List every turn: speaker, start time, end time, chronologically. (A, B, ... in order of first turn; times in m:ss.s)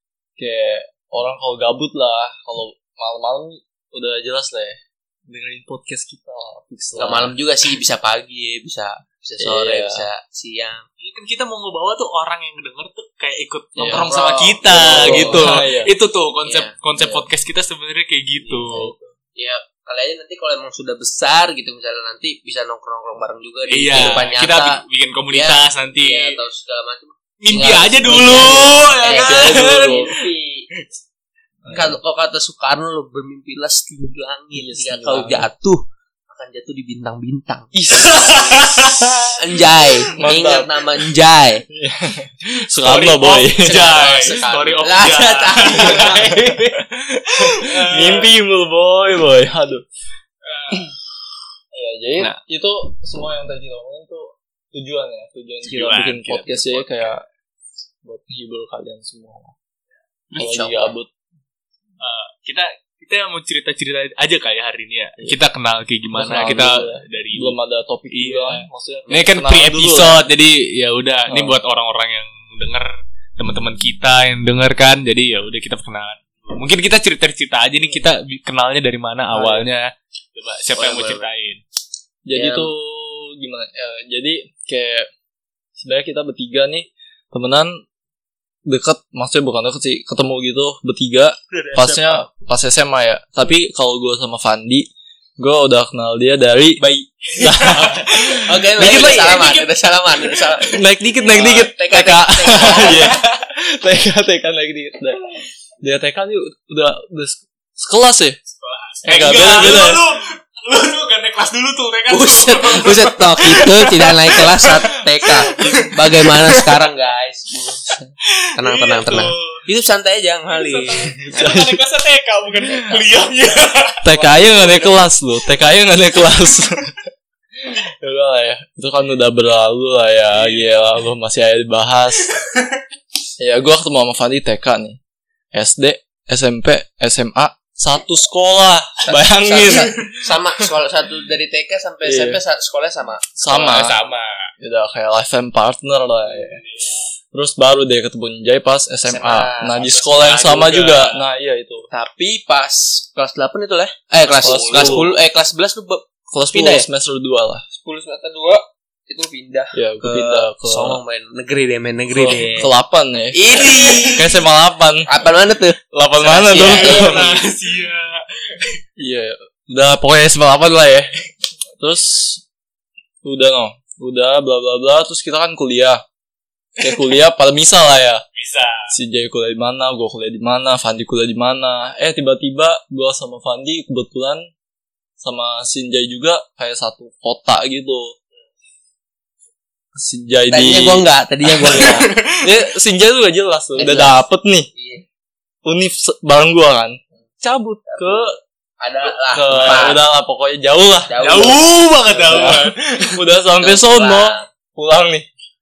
0:00.4-0:07.3 A
0:07.0-0:10.8 B
0:09.4-0:10.0 A
0:11.0-0:18.9 C
0:13.8-0:14.1 A
0:13.8-0:15.4 B
0:14.6-0:15.9 A
0:16.4-0:16.7 B
0:18.4-0:18.7 B
0:18.7-0:19.1 A
0:19.4-0:30.7 B
0:23.7-0:26.4 C
0:23.9-0:24.2 A
0:27.4-0:30.1 C
0:29.1-0:30.1 A
0:31.6-0:32.0 A
0:31.7-0:38.6 B
0:34.6-0:35.5 A
0:37.7-0:39.0 A
0:37.9-0:39.4 C
0:39.3-0:41.6 B
0:40.1-0:40.8 A
0:41.7-0:44.1 A
0:42.8-0:48.3 C
0:43.6-0:46.6 B
0:45.9-0:46.2 A
0:47.3-0:49.8 A
0:50.4-0:50.8 C
0:51.7-0:57.2 A
0:55.6-0:57.2 C
0:58.0-0:59.5 A
1:00.3-1:00.9 B
1:00.4-1:01.1 A
1:02.0-1:07.5 C
1:06.1-1:10.2 A
1:08.1-1:21.6 C
1:11.3-1:11.6 A
1:19.3-1:19.6 A
1:20.8-1:21.3 B
1:22.2-1:25.1 A
1:22.3-1:22.7 B
1:25.8-1:27.8 A
1:28.6-1:36.8 A
1:31.5-1:32.3 C
1:37.3-1:39.7 C
1:37.4-1:39.5 A
1:38.3-1:43.1 B
1:40.6-1:48.4 A
1:42.6-1:43.2 C
1:48.5-1:56.7 C
1:49.0-1:50.0 A
1:52.1-2:01.5 B
1:58.6-1:59.6 C
2:00.5-2:05.0 C
2:01.2-2:01.8 A
2:02.6-2:03.0 A
2:04.0-2:06.9 A
2:07.6-2:12.3 A
2:10.3-2:10.7 C
2:12.2-2:12.8 C
2:13.4-2:15.0 A
2:15.5-2:20.1 A
2:19.0-2:23.2 B
2:22.0-2:22.4 A
2:23.4-2:23.9 A
2:23.5-2:24.4 C
2:24.6-2:26.6 A
2:26.3-2:27.0 C
2:27.3-2:31.9 A
2:29.0-2:30.9 B
2:29.8-2:31.2 C
2:31.9-2:36.8 B
2:34.3-2:35.0 C
2:34.4-2:35.1 A
2:36.3-2:37.6 A
2:37.7-2:42.7 B
2:39.7-2:41.0 A
2:42.1-2:43.4 A
2:43.3-2:44.2 B
2:43.5-2:44.4 C
2:44.1-2:45.1 A
2:45.1-2:47.4 B
2:45.9-2:47.4 A
2:46.5-2:48.8 C
2:49.0-2:51.1 A
2:51.8-2:52.4 A
2:53.2-2:56.0 A
2:56.8-2:58.2 A
2:58.3-2:58.9 C
2:58.9-3:04.5 A
3:05.2-3:08.2 A
3:09.9-3:14.7 A
3:10.5-3:12.1 B
3:11.6-3:12.5 C
3:13.8-3:14.2 B
3:14.7-3:15.0 B
3:15.6-3:18.3 A
3:17.8-3:20.0 B
3:19.0-3:21.6 A
3:19.6-3:19.9 C
3:21.1-3:22.4 B
3:21.2-3:23.2 C
3:22.1-3:25.3 A
3:23.6-3:24.4 B